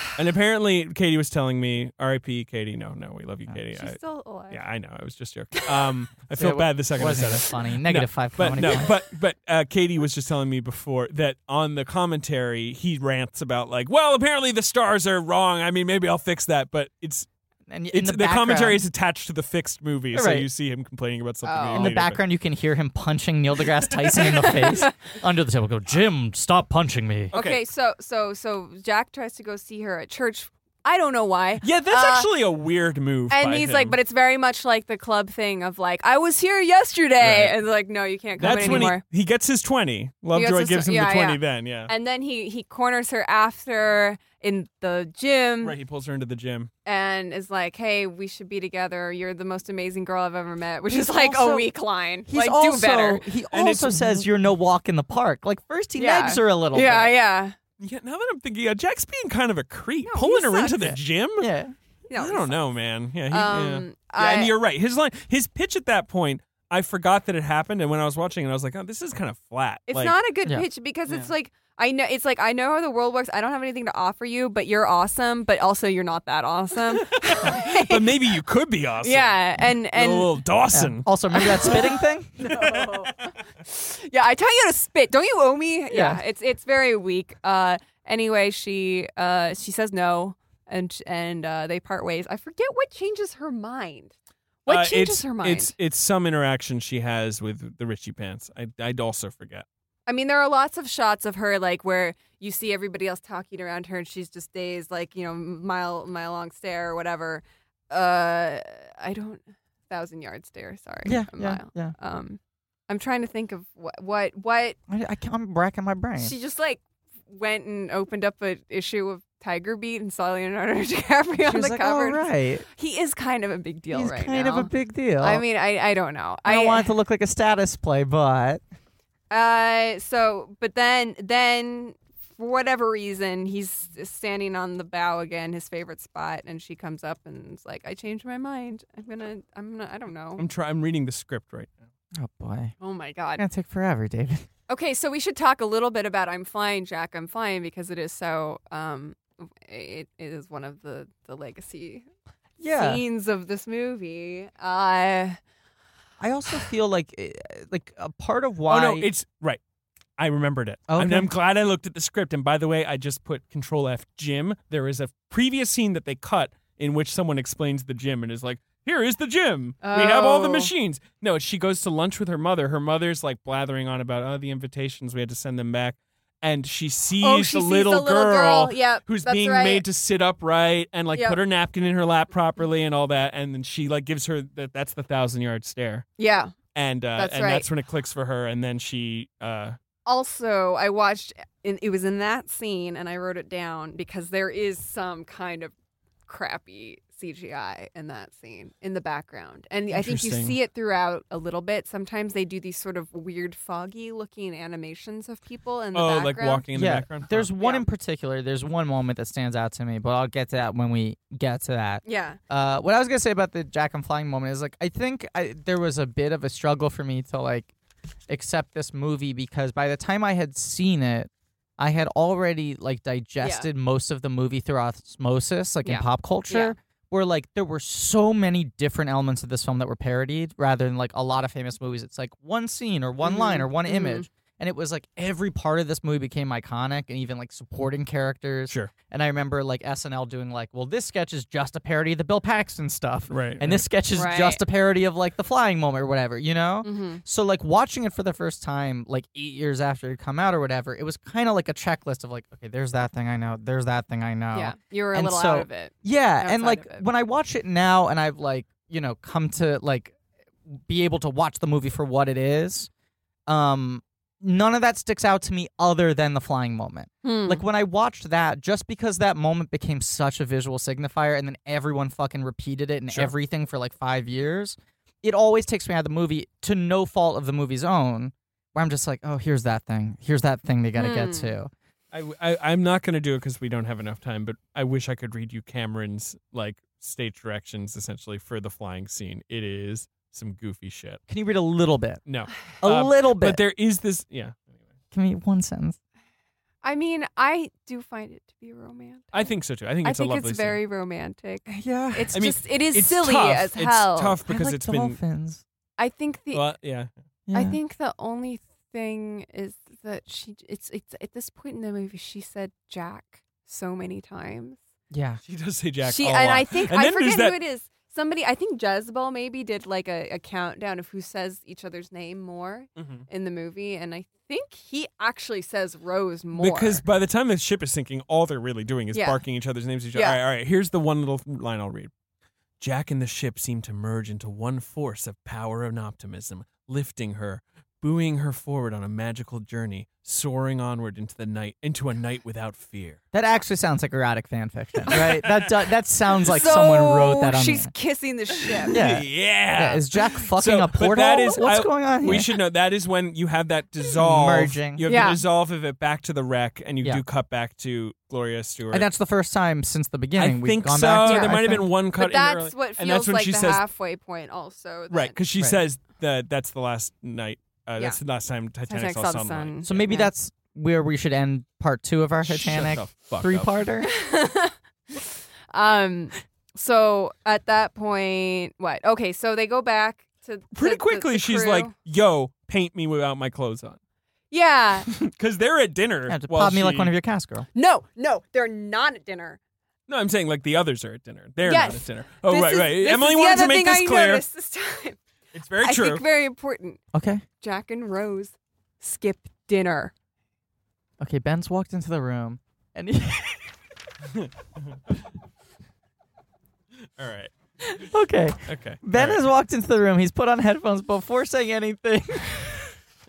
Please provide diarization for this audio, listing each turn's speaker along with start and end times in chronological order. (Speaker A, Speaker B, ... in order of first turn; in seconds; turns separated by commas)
Speaker A: 0.2-17.3, Speaker B: 3.8-4.6, Speaker C: 6.3-8.9, Speaker C: 17.7-18.8, Speaker A: 17.9-22.2, Speaker C: 20.1-20.5, Speaker B: 21.4-21.9, Speaker C: 21.7-27.3, Speaker B: 24.4-24.9, Speaker A: 27.3-27.6, Speaker B: 27.3-32.3, Speaker A: 31.6-34.0, Speaker B: 33.3-39.0, Speaker A: 37.2-37.6, Speaker A: 38.4-41.9, Speaker B: 40.3-45.8, Speaker A: 45.6-46.7, Speaker B: 46.9-53.3, Speaker C: 50.9-51.7, Speaker C: 52.3-57.1, Speaker A: 53.5-54.3, Speaker B: 56.0-57.6, Speaker A: 57.8-61.5, Speaker B: 60.1-61.0, Speaker C: 61.4-61.8, Speaker B: 62.1-62.5, Speaker A: 62.2-70.2, Speaker B: 63.3-64.5, Speaker B: 69.9-78.1, Speaker A: 77.1-81.1, Speaker B: 79.0-80.4, Speaker C: 80.7-82.5, Speaker B: 81.3-94.1, Speaker A: 82.6-82.9, Speaker C: 85.9-86.2, Speaker B: 94.7-95.7, Speaker A: 94.7-99.7, Speaker B: 100.1-114.8, Speaker C: 111.1-111.9, Speaker C: 114.9-116.3, Speaker B: 116.2-126.9, Speaker C: 121.4-122.7, Speaker C: 123.9-125.4, Speaker C: 126.5-128.6, Speaker B: 129.3-140.4, Speaker A: 140.4-141.9, Speaker C: 142.1-142.7, Speaker B: 142.8-143.4, Speaker C: 143.4-144.5, Speaker B: 144.7-152.1, Speaker C: 152.6-153.0, Speaker B: 152.7-155.4, Speaker C: 156.2-159.1, Speaker A: 158.7-159.6, Speaker A: 160.2-186.1, Speaker C: 160.9-161.3, Speaker B: 169.8-170.7, Speaker B: 177.2-179.8, Speaker B: 181.1-181.4, Speaker B: 186.2-186.6, Speaker A: 186.8-189.8, Speaker B: 187.2-187.7, Speaker B: 190.1-195.7, Speaker B: 196.3-206.6, Speaker A: 199.9-200.6, Speaker A: 205.9-207.5, Speaker C: 206.7-217.7, Speaker B: 207.6-207.9, Speaker B: 212.1-212.4, Speaker C: 218.3-260.2, Speaker B: 223.4-223.7, Speaker B: 225.8-226.8, Speaker B: 233.2-234.3, Speaker A: 243.3-243.8, Speaker B: 244.2-244.6, Speaker B: 246.8-247.2, Speaker B: 254.5-257.1, Speaker C: 260.7-262.9, Speaker C: 263.5-281.7, Speaker B: 267.2-267.6, Speaker B: 281.0-281.5, Speaker A: 282.1-291.2, Speaker C: 291.3-293.6, Speaker A: 292.3-294.6, Speaker C: 295.1-296.0, Speaker B: 296.8-299.5, Speaker A: 299.3-300.8, Speaker B: 300.0-304.4, Speaker C: 301.7-302.3, Speaker A: 302.3-305.2, Speaker C: 304.5-305.6, Speaker B: 306.0-306.7, Speaker A: 306.5-307.1, Speaker C: 307.5-307.8, Speaker B: 307.5-314.8, Speaker C: 315.1-315.4, Speaker A: 315.5-317.6, Speaker B: 316.0-327.0, Speaker A: 323.0-323.2, Speaker A: 326.6-332.1, Speaker B: 329.1-329.4, Speaker B: 330.1-330.4, Speaker A: 332.8-343.2, Speaker C: 343.3-347.9, Speaker A: 345.1-345.7, Speaker B: 346.4-349.0, Speaker A: 348.8-359.1, Speaker C: 348.9-352.5, Speaker C: 354.2-355.1, Speaker B: 355.1-355.4, Speaker C: 358.9-361.9, Speaker A: 360.4-363.8, Speaker B: 361.2-365.4, Speaker A: 365.1-370.1, Speaker B: 368.9-370.3, Speaker C: 369.9-374.1, Speaker A: 372.4-373.8, Speaker B: 374.0-381.9, Speaker A: 380.7-384.0, Speaker B: 384.5-385.1, Speaker A: 385.1-387.1, Speaker C: 386.3-387.7, Speaker B: 387.8-389.6, Speaker A: 390.1-394.4, Speaker B: 391.6-395.2, Speaker A: 395.5-396.2, Speaker B: 395.8-397.0, Speaker C: 397.1-397.4, Speaker B: 397.6-400.1, Speaker C: 401.2-403.7, Speaker A: 404.3-405.0, Speaker A: 407.2-407.5, Speaker C: 408.0-412.9, Speaker A: 408.7-409.4